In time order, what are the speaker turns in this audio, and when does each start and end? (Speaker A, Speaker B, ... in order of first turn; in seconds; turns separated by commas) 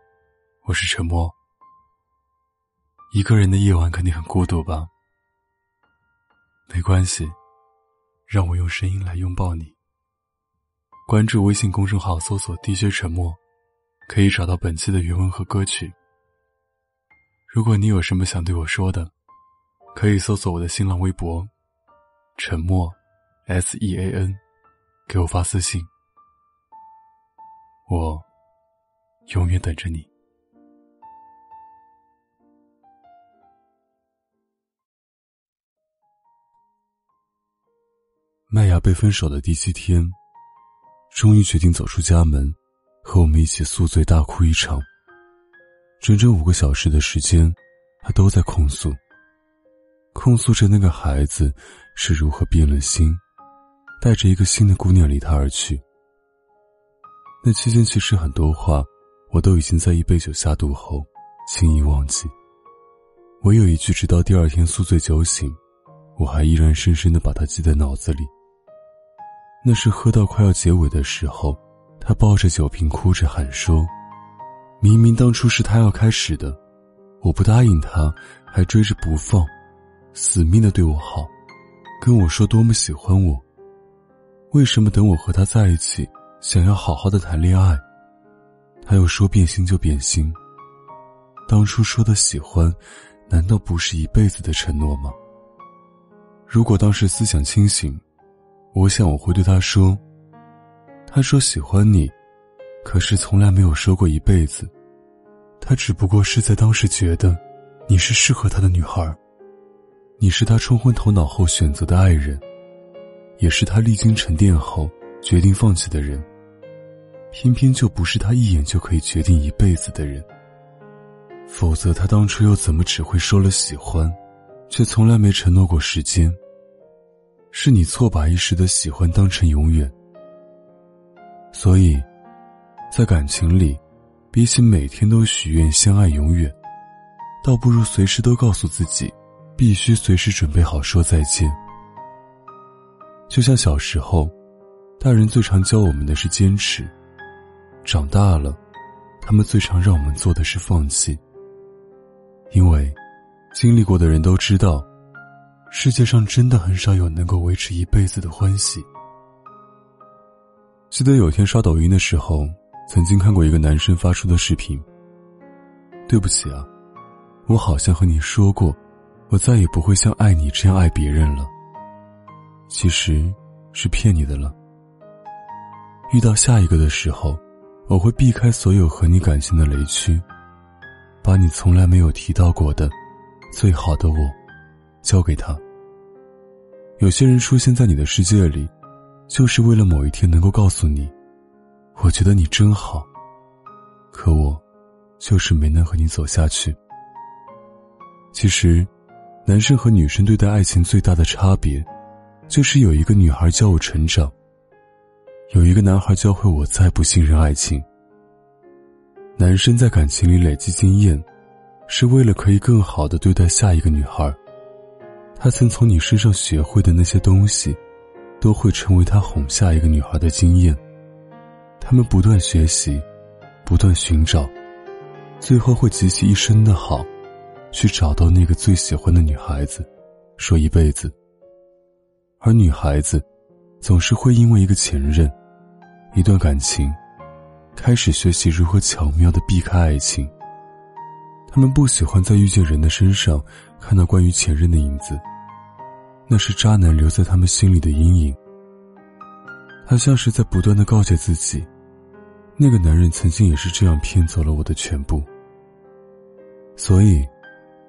Speaker A: 0.7-1.4, Speaker A: 3.1-4.9, Speaker A: 6.7-7.4, Speaker A: 8.3-9.8, Speaker A: 11.1-13.4, Speaker A: 14.1-15.9, Speaker A: 17.5-19.1, Speaker A: 19.9-21.5, Speaker A: 22.4-24.4, Speaker A: 25.1-25.9, Speaker A: 27.9-28.3, Speaker A: 29.3-30.1, Speaker A: 38.5-40.2, Speaker A: 41.1-44.9, Speaker A: 46.0-49.0, Speaker A: 50.1-53.2, Speaker A: 54.0-55.8, Speaker A: 57.4-62.3, Speaker A: 63.4-65.6, Speaker A: 66.2-68.3, Speaker A: 69.6-73.9, Speaker A: 74.8-76.6, Speaker A: 77.2-79.5, Speaker A: 80.1-81.3, Speaker A: 82.0-83.5, Speaker A: 84.5-87.8, Speaker A: 88.8-90.4, Speaker A: 91.5-95.2, Speaker A: 96.5-98.0, Speaker A: 98.7-100.0, Speaker A: 101.1-102.2, Speaker A: 102.8-104.7, Speaker A: 105.6-109.2, Speaker A: 110.2-112.4, Speaker A: 113.4-116.3, Speaker A: 117.3-120.3, Speaker A: 121.5-124.2, Speaker A: 124.7-126.4, Speaker A: 127.5-129.9, Speaker A: 131.5-132.1, Speaker A: 132.9-133.8, Speaker A: 134.3-136.6, Speaker A: 137.4-141.6, Speaker A: 143.3-144.3, Speaker A: 145.0-146.9, Speaker A: 147.8-148.6, Speaker A: 149.2-151.2, Speaker A: 152.5-153.0, Speaker A: 153.5-154.9, Speaker A: 155.7-158.9, Speaker A: 160.9-164.9, Speaker A: 166.1-166.7, Speaker A: 167.5-171.5, Speaker A: 172.7-174.6, Speaker A: 176.1-180.2, Speaker A: 181.2-182.9, Speaker A: 183.5-184.4, Speaker A: 185.0-185.6, Speaker A: 187.0-188.7, Speaker A: 189.3-191.1, Speaker A: 191.9-193.1, Speaker A: 194.1-194.6, Speaker A: 195.2-196.8, Speaker A: 198.3-198.9, Speaker A: 199.4-201.9, Speaker A: 202.5-204.3, Speaker A: 205.5-207.9, Speaker A: 209.4-211.3, Speaker A: 211.9-214.4, Speaker A: 215.4-217.8, Speaker A: 218.4-220.8, Speaker A: 221.8-223.1, Speaker A: 223.6-224.5, Speaker A: 225.4-227.1, Speaker A: 227.7-231.2, Speaker A: 232.4-233.3, Speaker A: 233.8-235.3, Speaker A: 236.1-237.0, Speaker A: 237.8-240.3, Speaker A: 241.5-245.2, Speaker A: 246.3-248.4, Speaker A: 249.8-251.7, Speaker A: 252.6-255.3, Speaker A: 256.8-257.3